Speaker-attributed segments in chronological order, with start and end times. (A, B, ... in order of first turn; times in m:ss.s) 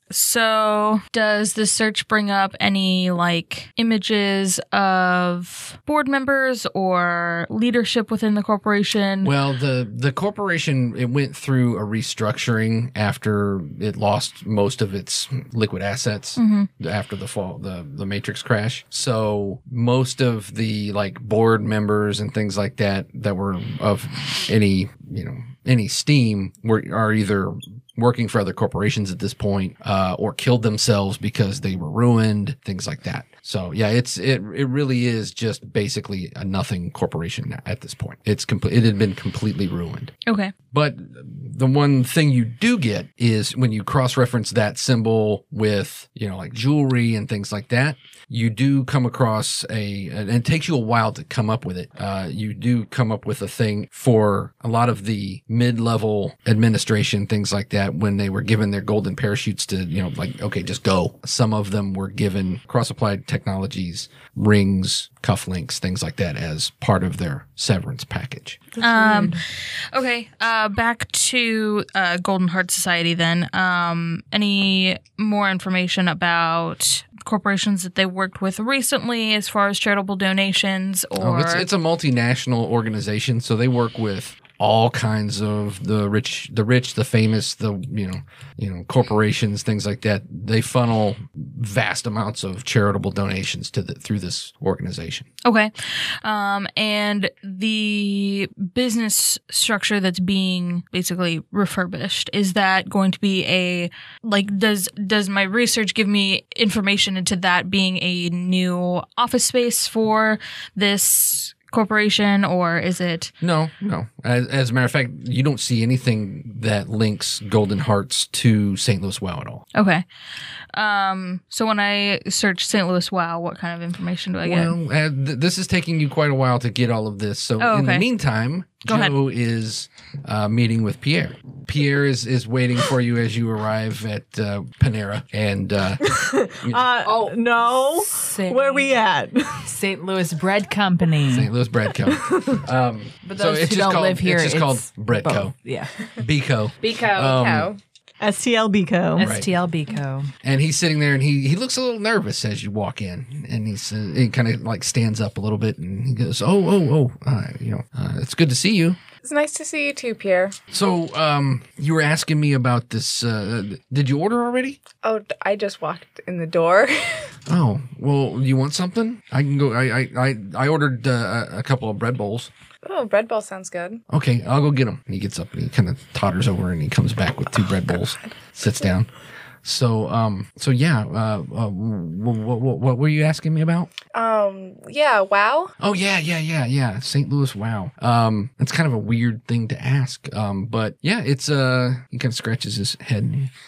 0:00.1-0:09.3 A
0:09.2-0:40.1 B
0:16.4-0:16.7 A
0:40.3-0:40.5 A
0:40.7-1:08.6 B
1:08.8-1:21.7 A
1:21.2-1:35.3 B
1:35.4-1:53.3 A
1:53.4-1:59.6 B
1:59.8-2:00.0 A
2:00.7-2:04.7 A
2:04.4-2:16.9 B
2:07.6-2:08.1 A
2:08.9-2:09.2 A
2:16.0-2:19.7 C
2:17.0-2:19.0 D
2:19.6-2:21.5 D
2:21.3-2:25.5 B
2:22.1-2:22.6 C
2:23.2-2:26.1 D
2:26.2-2:27.7 B
2:26.8-2:27.4 D
2:27.2-2:27.8 E
2:28.2-2:29.3 C
2:29.2-2:30.3 D
2:29.2-2:29.5 B
2:30.4-2:39.0 B
2:39.2-2:40.6 E
2:40.7-2:44.8 B
2:45.0-2:47.3 E
2:47.5-2:52.5 B
2:52.8-2:54.0 E
2:54.1-2:59.1 B
2:59.6-3:03.9 B
3:04.1-3:05.8 E
3:05.8-3:13.5 B